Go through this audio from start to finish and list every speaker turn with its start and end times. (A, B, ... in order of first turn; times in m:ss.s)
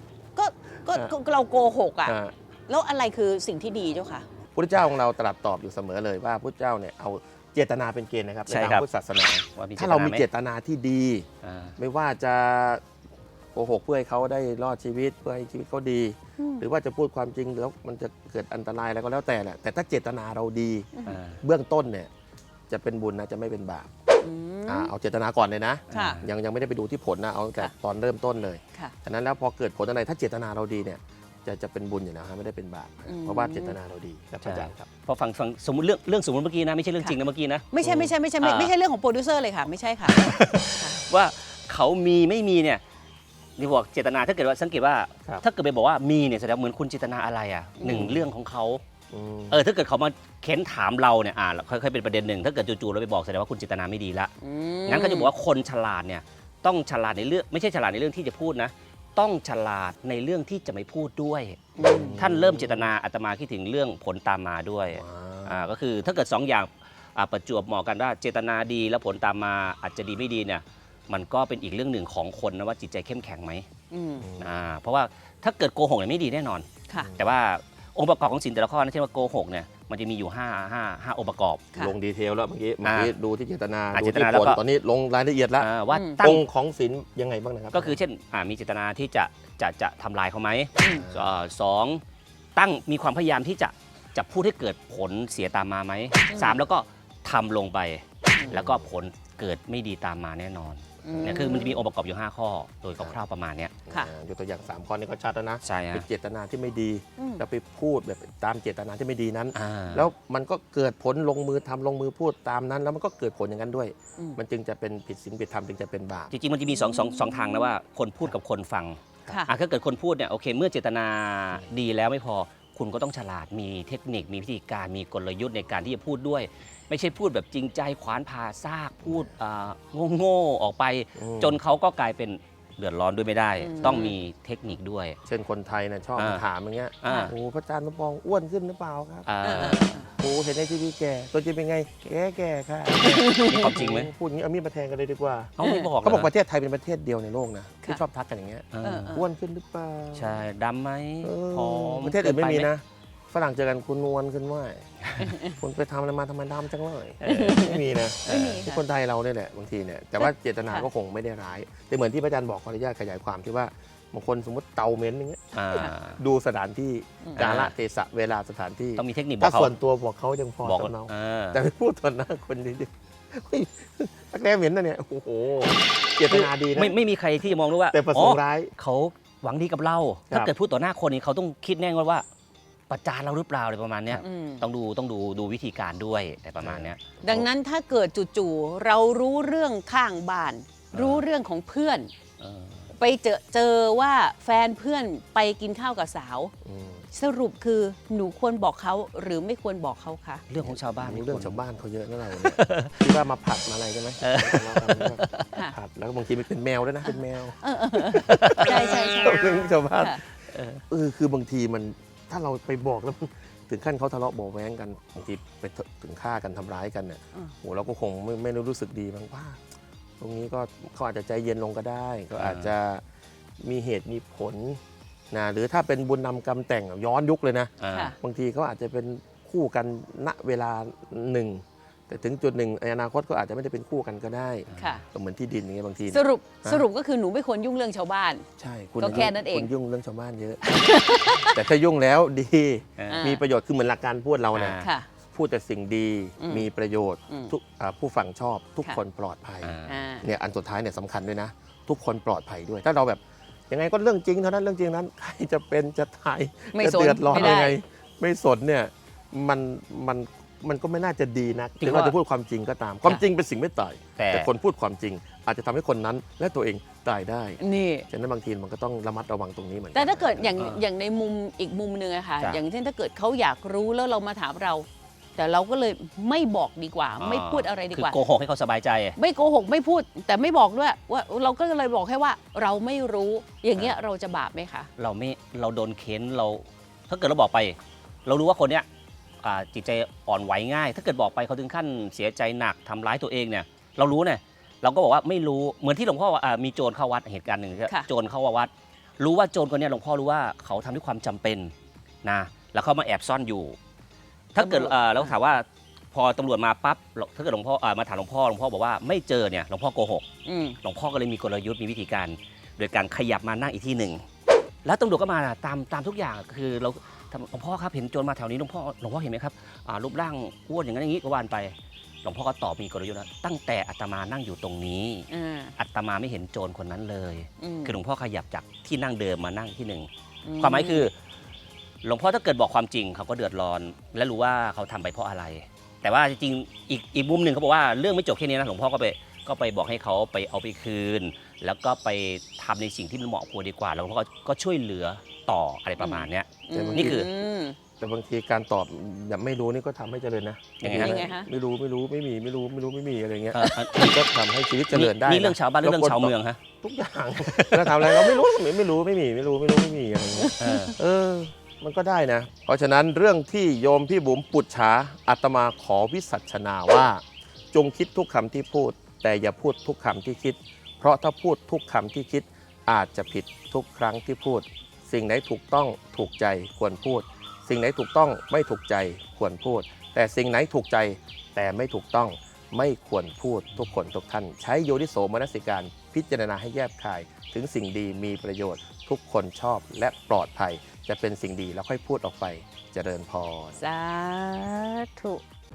0:00.4-0:02.2 A
0:02.0-0:02.3 B
0:02.7-0:04.3 A
0:04.6-0:11.3 B
0:08.5-0:08.9 C
0:09.6-0:10.3 C
0:11.4-0:11.8 C
0:11.8-0:12.8 B
0:13.5-0:20.9 B
0:16.4-0:16.6 A
0:21.1-0:21.4 C
0:21.4-0:22.1 B
0:22.7-0:23.9 B
0:24.2-0:24.9 A
0:24.7-0:34.9 B
0:25.9-0:26.2 A
0:25.9-0:26.3 C
0:33.1-0:33.8 A
0:34.4-0:37.7 C
0:37.7-0:40.2 A
0:37.8-0:38.1 B
0:38.4-0:38.7 C
0:40.2-0:42.8 C
0:43.6-0:48.8 C
0:47.8-0:48.1 A
0:47.9-0:48.3 B
0:49.1-0:49.6 B
0:49.5-0:54.3 C
0:54.4-0:55.3 A
0:54.9-1:13.7 C
1:01.8-1:02.2 A
1:01.8-1:02.9 B
1:04.9-1:05.6 B
1:13.9-1:14.3 A
1:14.2-1:14.5 B
1:14.4-1:21.6 C
1:21.8-1:25.7 B
1:22.8-1:23.1 C
1:23.9-1:24.6 C
1:25.6-1:26.5 C
1:25.9-1:26.2 A
1:26.2-1:28.0 B
1:27.7-1:32.0 C
1:30.8-1:31.1 A
1:30.9-1:31.3 B
1:32.6-1:43.7 C
1:36.3-1:36.6 A
1:38.5-1:38.9 B
1:41.0-1:41.8 A
1:41.1-1:41.6 B
1:43.9-1:56.3 B
1:45.6-1:46.1 C
1:47.2-1:47.4 A
1:49.5-1:50.1 C
1:56.3-2:15.2 C
1:56.7-1:57.7 A
2:09.1-2:09.3 B
2:11.2-2:11.6 B
2:13.6-2:14.2 A
2:15.3-2:30.4 B
2:16.2-2:16.4 C
2:17.0-2:17.4 C
2:17.1-2:17.3 A
2:19.3-2:20.0 C
2:19.4-2:20.1 A
2:23.0-2:23.6 A
2:23.4-2:24.1 C
2:25.6-2:26.3 C
2:25.6-2:25.9 A
2:28.7-2:29.2 C
2:28.8-2:29.2 A
2:30.2-2:32.7 C
2:31.2-2:34.9 B
2:35.2-2:35.6 A
2:35.4-2:57.0 B
2:37.2-2:37.6 C
2:37.3-2:38.8 A
2:38.3-2:38.6 C
2:40.2-2:40.9 A
2:45.5-2:46.2 C
2:47.4-2:47.8 C
2:49.0-2:49.7 C
2:50.6-2:51.6 C
2:56.3-3:02.2 C
2:57.9-2:58.7 B
3:02.9-3:07.1 C
3:04.2-3:04.6 A
3:06.6-3:07.5 B
3:07.2-3:12.1 A
3:10.9-3:11.2 C
3:12.4-3:12.9 C
3:12.9-3:16.5 A
3:16.6-3:17.1 B
3:17.1-3:20.4 A
3:20.5-3:21.6 C
3:20.6-3:30.3 B
3:22.3-3:23.1 C
3:24.2-3:25.5 C
3:27.6-3:30.2 A
3:28.3-3:28.7 C
3:30.5-3:30.8 C
3:30.9-3:39.6 B
3:40.2-3:43.0 B
3:42.4-3:42.7 C
3:43.6-3:56.8 B
3:47.8-3:48.1 C
3:47.9-3:48.2 A
3:54.7-3:55.0 C
3:54.8-3:55.0 A
3:56.1-3:58.4 A
3:58.6-4:04.8 B
3:59.0-3:59.7 A
4:00.7-4:01.6 A
4:03.1-4:03.4 A
4:04.5-4:04.9 C
4:04.8-4:05.1 A
4:05.3-4:30.8 B
4:06.4-4:06.7 A
4:09.6-4:10.1 C
4:09.9-4:10.3 A
4:16.7-4:17.8 A
4:17.3-4:17.6 C
4:21.8-4:22.2 C
4:24.2-4:24.5 C
4:27.6-4:28.1 A
4:29.9-4:38.2 A
4:37.2-4:39.2 C
4:39.2-4:44.9 A
4:45.0-4:48.9 C
4:49.4-5:01.7 C
5:02.2-5:03.8 C
5:04.5-5:10.3 C
5:04.6-5:05.3 A
5:10.5-5:10.8 A
5:10.8-5:14.2 C
5:14.8-5:31.1 C
5:25.3-5:25.7 A
5:27.6-5:28.0 A
5:30.4-5:31.1 A
5:32.0-5:47.3 C
5:46.0-5:47.8 A
5:46.7-5:47.3 B
5:48.0-6:33.8 B
5:50.8-5:51.2 C
5:50.9-5:51.5 A
5:53.5-5:54.2 C
5:54.9-5:56.6 C
5:57.5-5:58.4 C
6:00.6-6:01.0 C
6:33.8-6:35.4 A